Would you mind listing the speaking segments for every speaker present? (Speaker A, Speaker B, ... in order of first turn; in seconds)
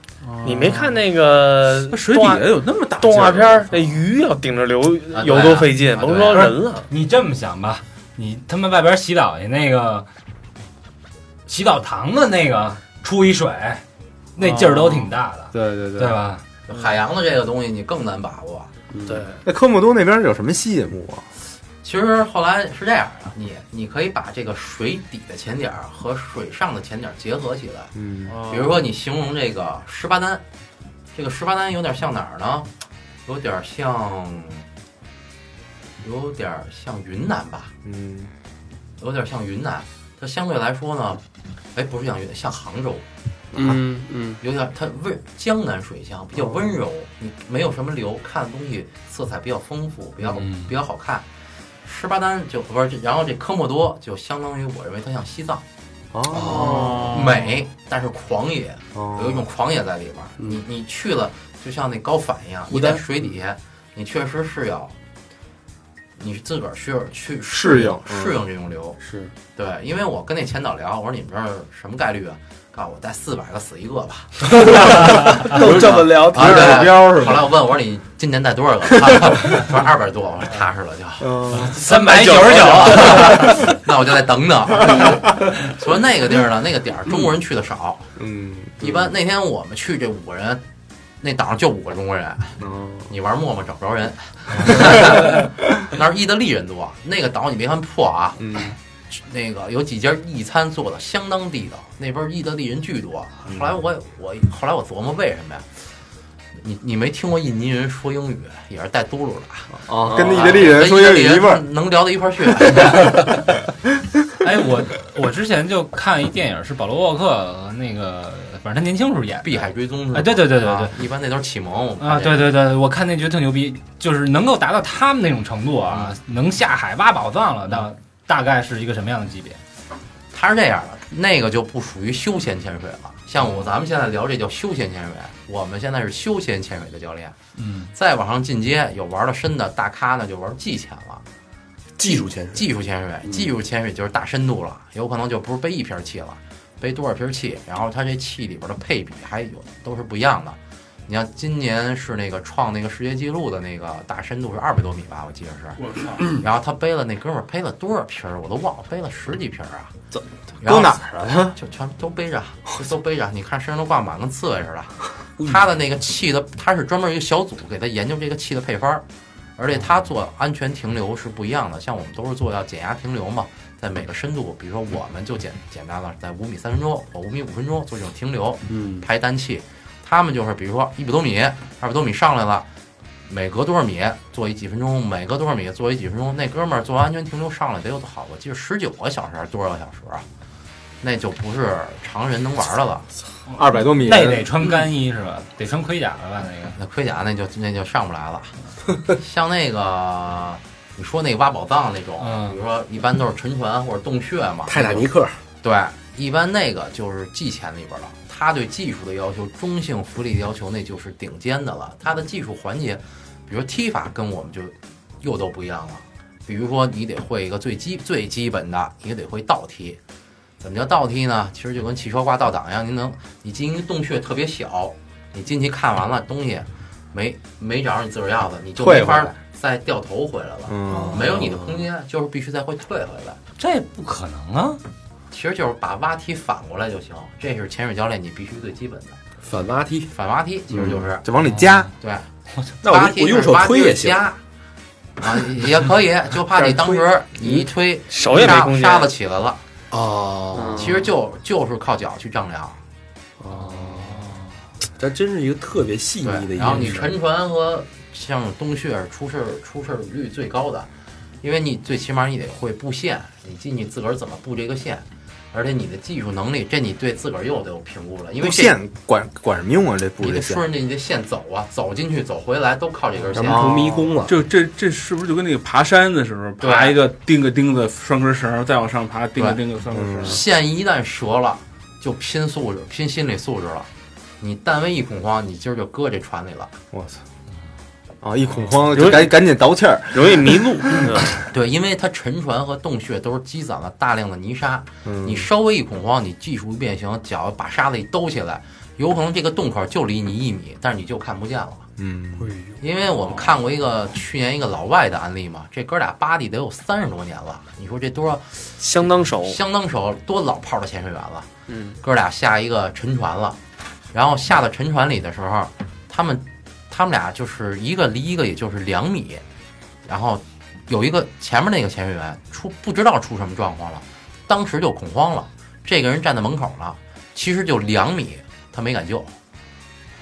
Speaker A: 0.2-1.0, 1.9-4.0, 28.3-28.8, 56.5-57.5, 137.6-137.9, 155.8-156.3, 274.3-280.4
Speaker B: 0.4-6.9, 19.1-19.4, 81.9-82.7, 248.1-249.1, 250.5-251.0, 288.9-289.4, 290.1-291.4, 308.8-309.6, 311.7-312.0
Speaker C: 5.1-6.5, 16.7-18.7, 21.8-27.9, 28.5-30.4, 31.1-32.7, 33.3-34.7, 36.0-37.7, 39.0-41.2, 41.8-43.0, 44.4-51.2, 51.8-55.6, 57.1-65.0, 66.2-69.0, 69.6-74.5, 76.3-81.3, 82.2-88.1, 88.8-90.6, 91.2-92.6, 93.1-98.4, 99.1-105.7, 106.6-113.2, 119.4-122.5, 130.3-137.4, 137.9-141.2, 142.1-159.9, 160.6-169.1, 169.6-182.7, 183.3-190.2, 191.0-193.1, 196.8-198.5, 199.1-205.1, 205.6-220.0, 220.6-233.4, 235.3-239.2, 240.1-241.3, 242.0-242.3, 242.8-244.4, 245.2-249.6, 250.8-252.8, 256.2-260.9, 261.4-268.8, 270.2-273.6, 276.6-277.0, 279.4-279.6, 280.2-283.9, 284.4-286.8, 291.5-301.9, 302.8-311.5, 312.0-313.6, 314.1-319.4, 320.1-329.4
Speaker D: 6.3-10.1, 11.5-13.8, 14.4-16.4, 50.4-50.7, 81.7-83.6, 114.4-121.0, 122.0-129.6, 194.0-196.8, 202.2-202.6, 233.6-234.8, 241.4-241.9
Speaker E: 14.4-16.2, 19.4-21.3, 27.9-28.4, 37.9-38.3, 56.1-57.2, 58.9-59.4, 67.5-68.4, 75.6-77.5, 79.1-79.3, 81.2-81.8, 88.2-89.1, 92.6-93.1, 94.7-95.2, 98.4-98.8, 109.8-111.6, 160.6-161.6, 193.5-194.6, 228.8-229.3, 230.7-231.4, 240.7-241.9, 268.4-270.7, 273.4-274.1, 279.9-280.4, 286.9-287.2, 288.2-291.1, 295.1-295.5, 302.0-302.5
Speaker F: 18.9-19.2, 43.5-44.4, 56.3-57.1, 62.7-63.0, 69.0-69.3, 74.5-77.1, 142.0-142.7, 143.2-143.5, 178.7-179.1, 204.7-205.4, 230.9-231.8, 239.4-240.1, 242.8-244.2, 246.5-247.6, 249.9-251.0, 253.4-254.4, 255.0-257.1, 273.3-274.4, 302.4-302.8